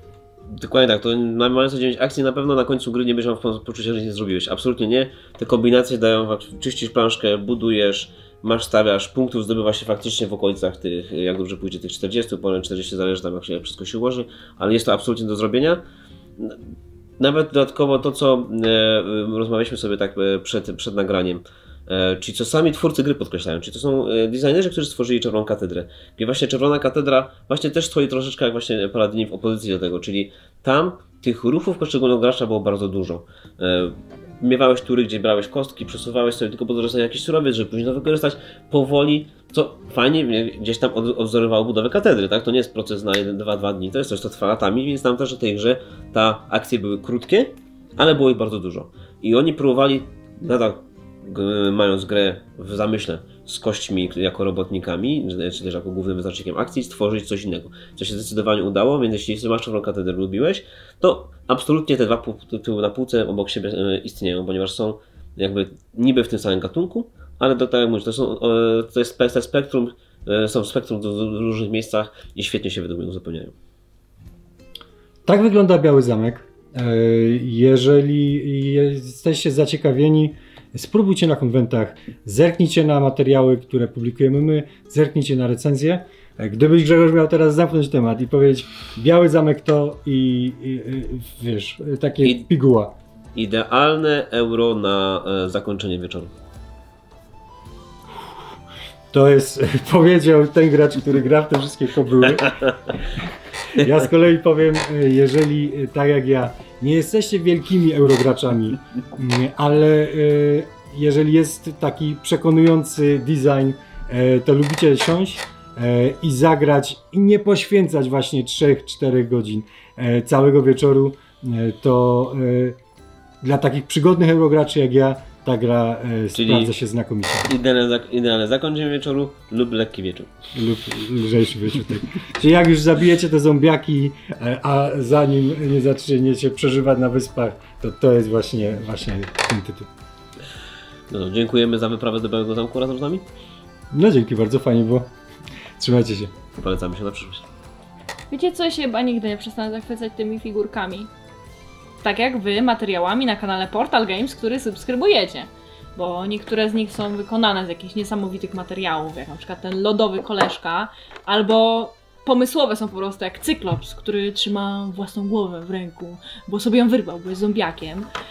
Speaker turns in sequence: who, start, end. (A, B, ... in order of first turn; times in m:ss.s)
0:00.5-0:15.8 A
0:17.2-1:13.5 A
1:15.2-1:32.9 B
1:33.3-1:36.3 A
1:39.1-1:43.2 B
1:43.7-2:02.8 B
2:03.4-2:07.5 B
2:06.3-2:06.7 A
2:07.4-2:10.3 A
2:10.5-2:19.9 B
2:21.1-2:23.2 A
2:23.9-2:25.1 B
2:25.8-2:26.3 B
2:26.6-2:27.5 A
2:28.3-2:31.1 C
2:32.0-2:48.1 C